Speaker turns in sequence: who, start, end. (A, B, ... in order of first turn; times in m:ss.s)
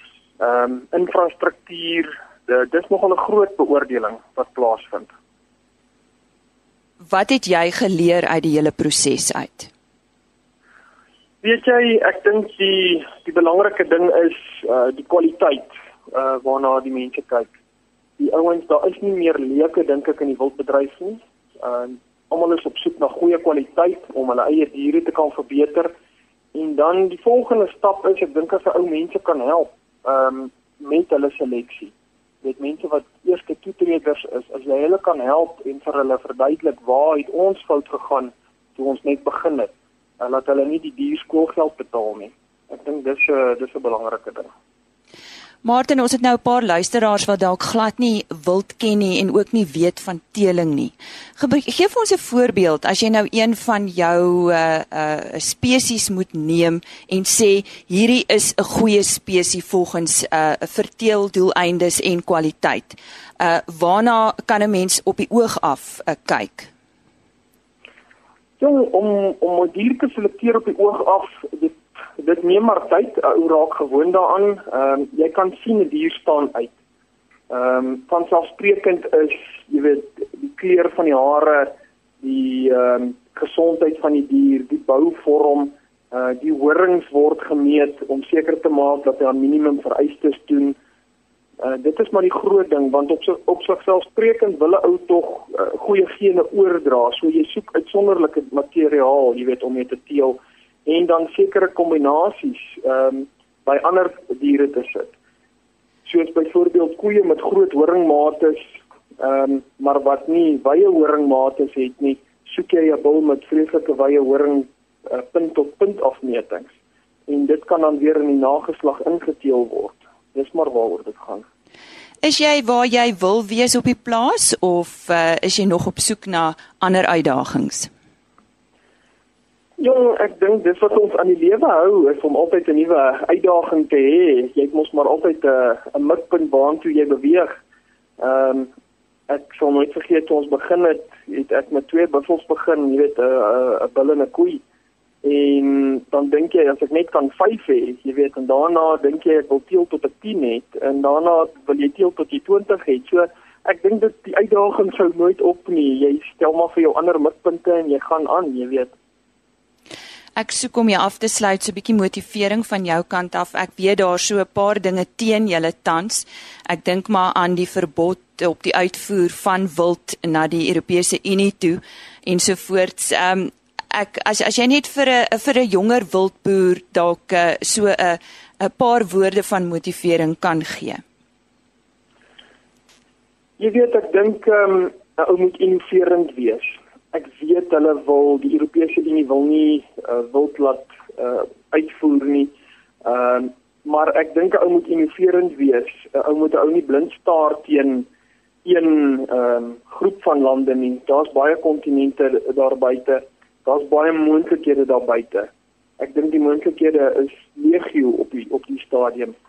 0:00.4-0:05.1 A
0:07.0-0:09.7 B
0:11.4-0:17.5 A
0:18.2-0:25.9 A
0:26.5-0:44.5 A
0:45.6-1:06.7 B
1:08.6-1:16.7 A
1:17.5-1:30.8 A
1:31.6-1:45.1 A
1:46.0-1:56.7 A
1:57.3-2:01.4 A
2:02.2-2:07.9 B
2:09.8-2:17.5 A
2:18.2-2:18.7 A
2:19.3-2:24.6 A
2:25.2-2:38.9 A
2:40.4-3:01.0 B
3:03.6-3:18.1 A
3:18.6-3:29.3 A